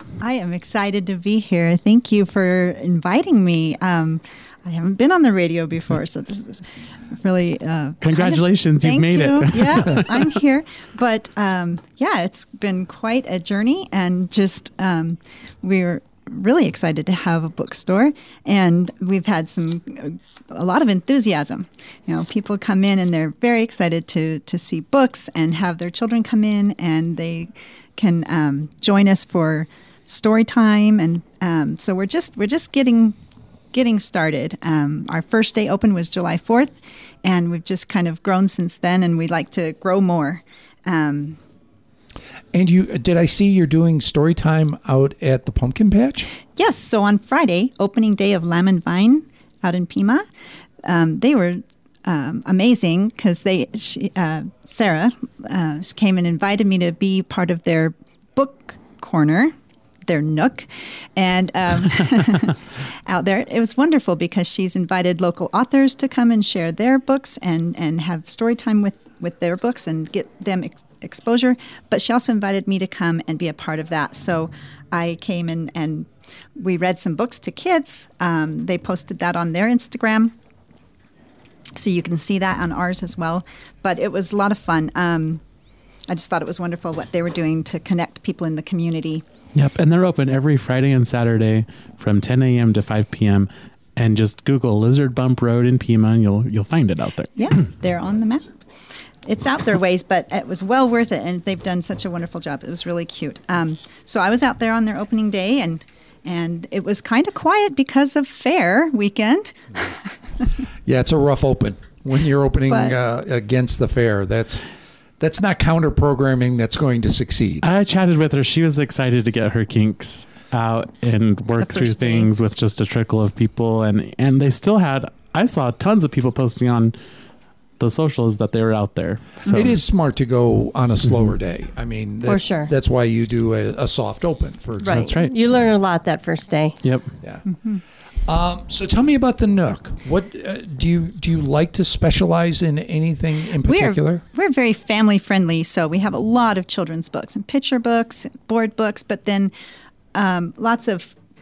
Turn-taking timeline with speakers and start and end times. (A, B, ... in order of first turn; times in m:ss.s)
0:00.2-0:33.2 A
0:08.0-0:10.3 B
0:33.7-0:41.4 A
0:42.5-0:46.3 C
0:46.6-0:50.2 A
0:50.8-0:59.5 A
1:00.1-1:20.3 A
1:21.7-1:25.4 A
1:26.1-1:29.2 A
1:29.5-1:37.6 B
1:37.4-1:38.7 A
1:39.2-1:50.1 A
1:50.8-1:54.7 C
1:52.7-1:53.0 A
1:55.2-1:57.6 C
1:57.6-2:06.9 B
2:01.6-2:02.3 A
2:07.8-2:09.8 B
2:09.4-2:15.2 C
2:11.0-2:11.3 B
2:12.2-2:12.7 D
2:14.8-2:16.8 D
2:14.9-2:15.3 B
2:16.8-2:17.1 B
2:17.2-2:17.5 C
2:18.2-2:24.2 C
2:23.6-2:29.5 A
2:30.1-2:31.1 A